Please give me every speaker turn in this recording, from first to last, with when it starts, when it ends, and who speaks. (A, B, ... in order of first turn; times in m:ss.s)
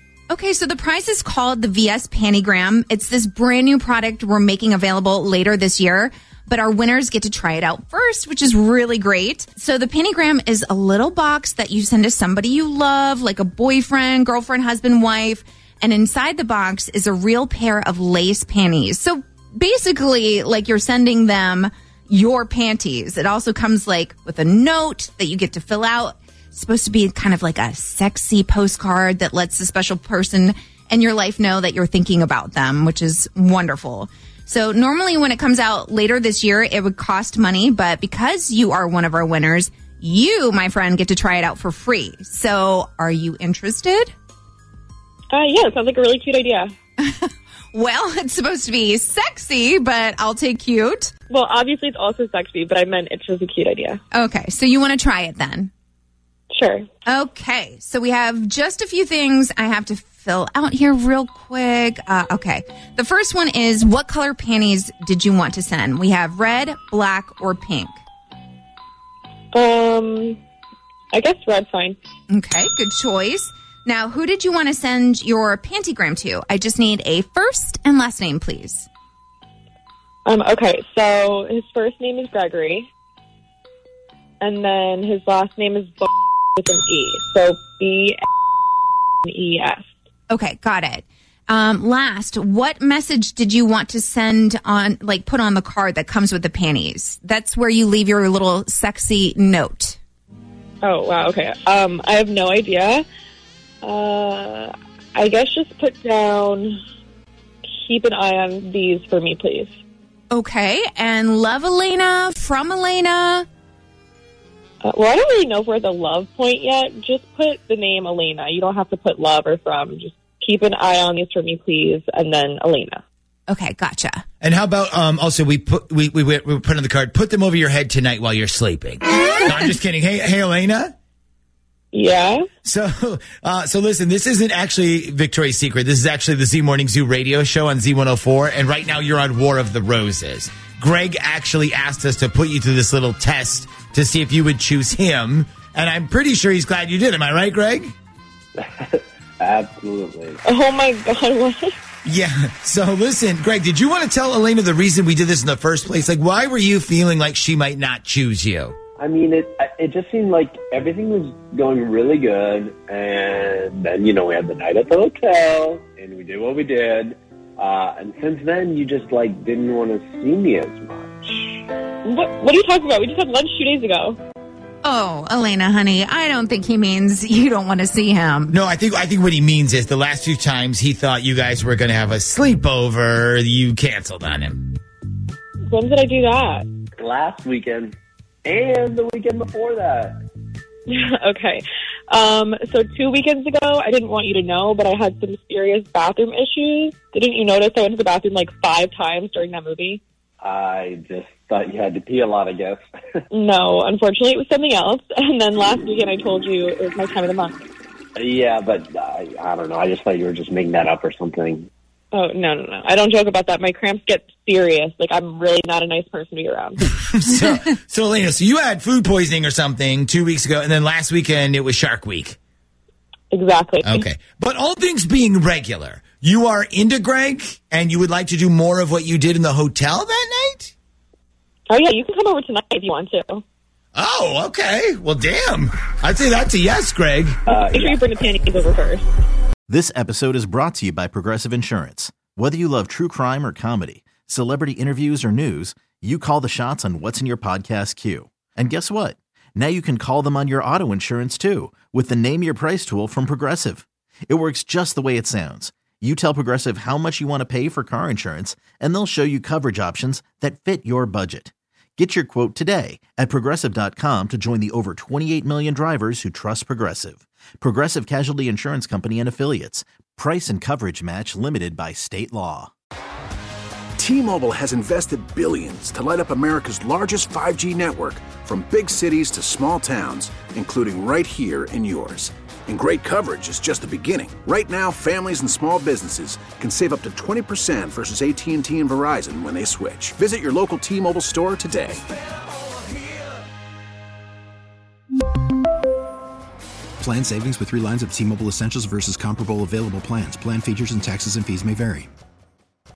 0:00.3-0:44.1 A
0:45.3-0:46.7 B
0:47.0-0:51.1 A
0:51.3-0:54.0 B
0:54.1-0:55.7 A
0:56.5-0:56.9 B
0:57.1-1:08.0 A
1:09.5-1:10.4 B
1:11.1-1:12.0 B
1:12.3-1:18.9 A
1:20.2-1:22.9 B
1:24.4-1:28.2 B
1:29.2-1:29.9 B
1:30.3-1:40.0 A
1:40.8-1:43.0 B
1:43.8-1:46.8 B
1:47.8-1:49.8 B
1:50.3-1:53.4 A
1:54.8-2:03.0 B
2:03.5-2:04.2 A
2:04.4-2:10.9 C
2:11.9-2:12.4 B
2:12.6-2:27.9 C
2:28.6-2:30.4 D
2:30.4-2:31.7 B
2:32.0-2:38.8 C
2:39.0-2:51.6 D
2:52.0-2:54.2 B
2:54.8-2:58.5 A
2:58.5-3:04.7 C
3:05.7-3:06.7 B
3:07.0-3:07.9 D
3:08.4-3:10.2 D
3:10.9-3:20.0 B
3:20.4-3:22.8 D
3:23.3-3:27.6 B
3:28.2-3:31.7 D
3:32.1-3:36.8 B
3:36.9-3:42.4 C
3:43.3-3:44.0 B
3:43.8-3:50.7 C
3:51.7-3:53.4 B
3:53.9-3:57.4 C
3:57.5-3:58.2 D
3:57.6-3:59.0 B
3:59.7-4:32.7 E
4:34.0-4:52.0 F
4:57.0-5:02.1 G